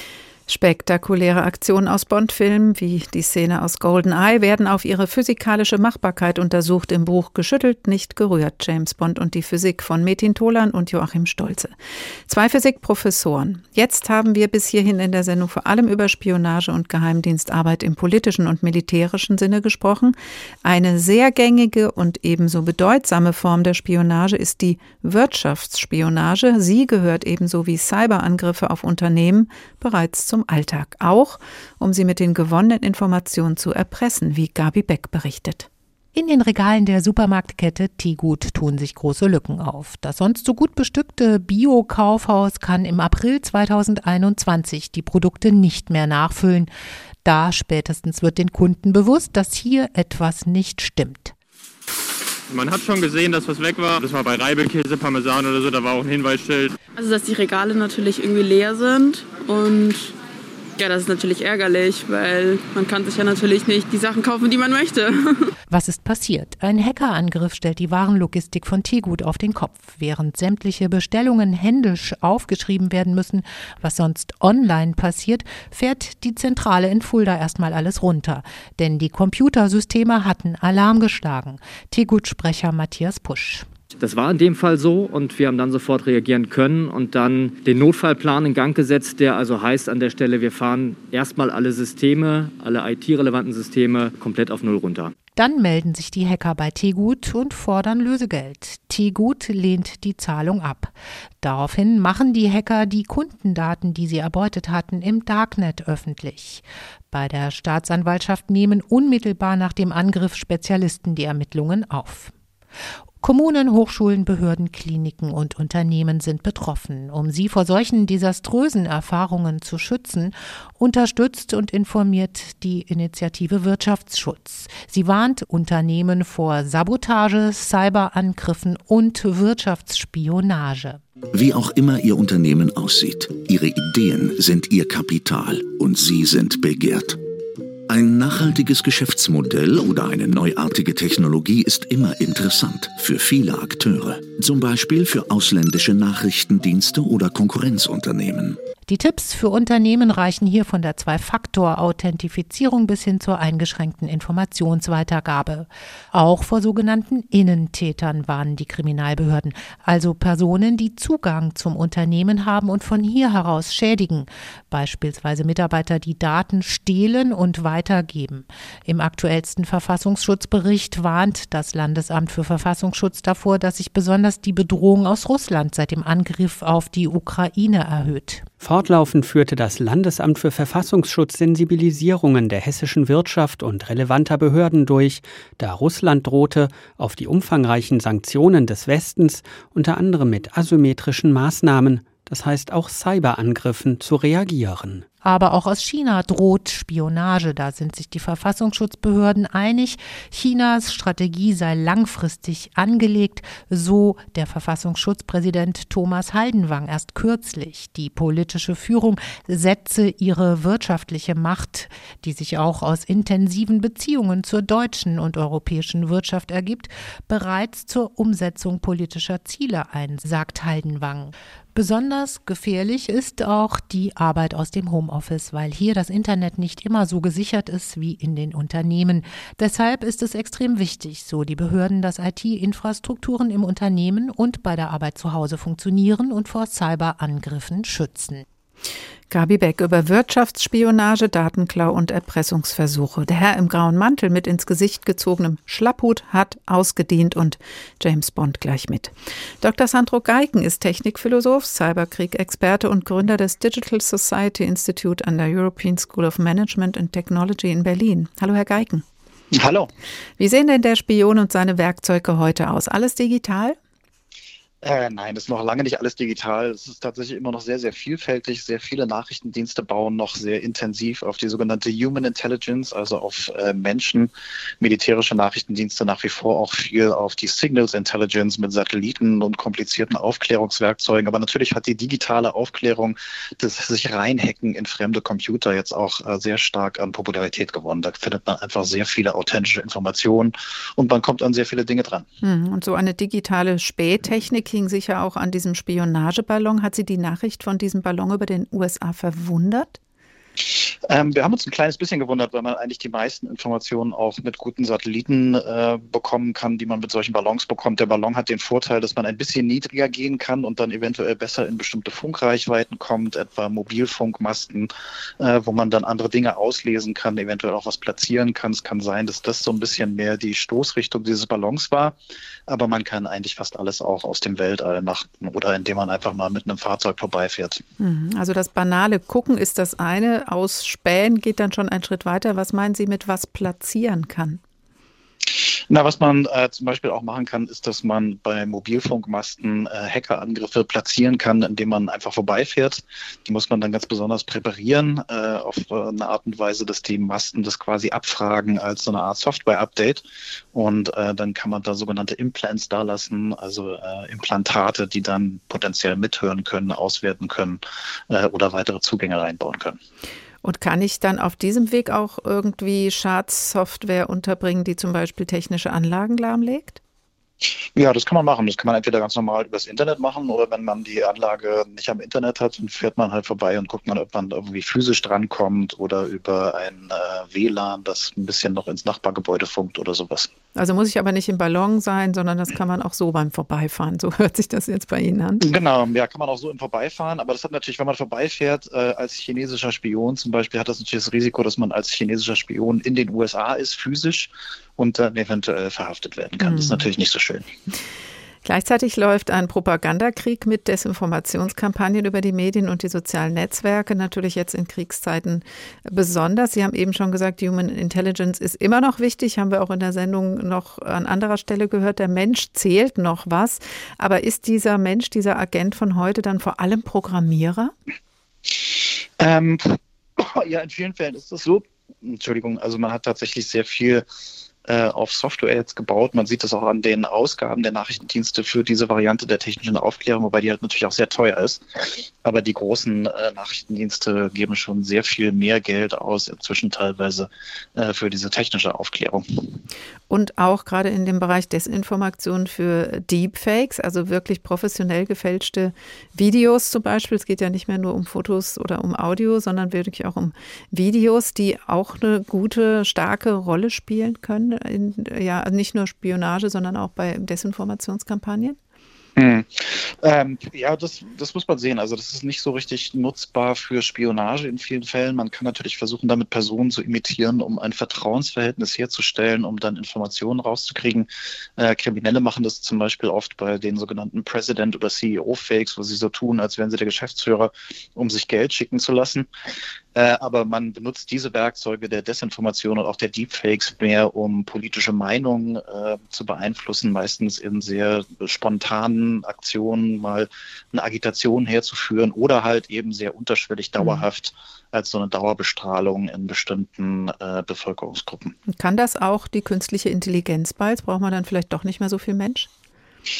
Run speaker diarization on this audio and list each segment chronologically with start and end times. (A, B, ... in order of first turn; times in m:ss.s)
0:00.5-0:11.7 A
0:12.3-0:35.7 A
0:36.1-0:46.7 B
0:47.2-0:51.3 B
0:52.5-0:56.7 C
0:56.9-1:00.1 D
1:00.8-1:05.5 D
1:05.7-1:23.6 B
1:24.0-1:35.0 E
1:35.4-1:52.3 B
1:53.2-2:11.0 B
2:11.3-2:17.2 F
2:17.9-2:28.6 F
2:28.9-2:58.5 B
2:58.6-3:15.0 G
3:15.2-3:58.4 B
3:59.3-4:19.0 A
4:19.5-4:19.9 H
4:20.4-4:23.8 A
4:24.8-4:52.2 H
4:52.4-5:00.0 A
5:00.6-5:27.8 H
5:28.0-5:34.6 A
5:35.4-6:00.0 H
6:00.6-6:07.0 A
6:07.8-6:20.5 H
6:20.7-6:25.7 A
6:25.6-6:37.7 H
6:36.6-6:37.0 A
6:38.6-6:57.9 A
6:58.7-7:04.2 H
7:04.8-7:19.8 H
7:20.3-7:38.8 A
7:39.4-7:59.5 H
8:00.1-8:18.6 H
8:14.0-8:14.2 A
8:18.7-8:22.7 A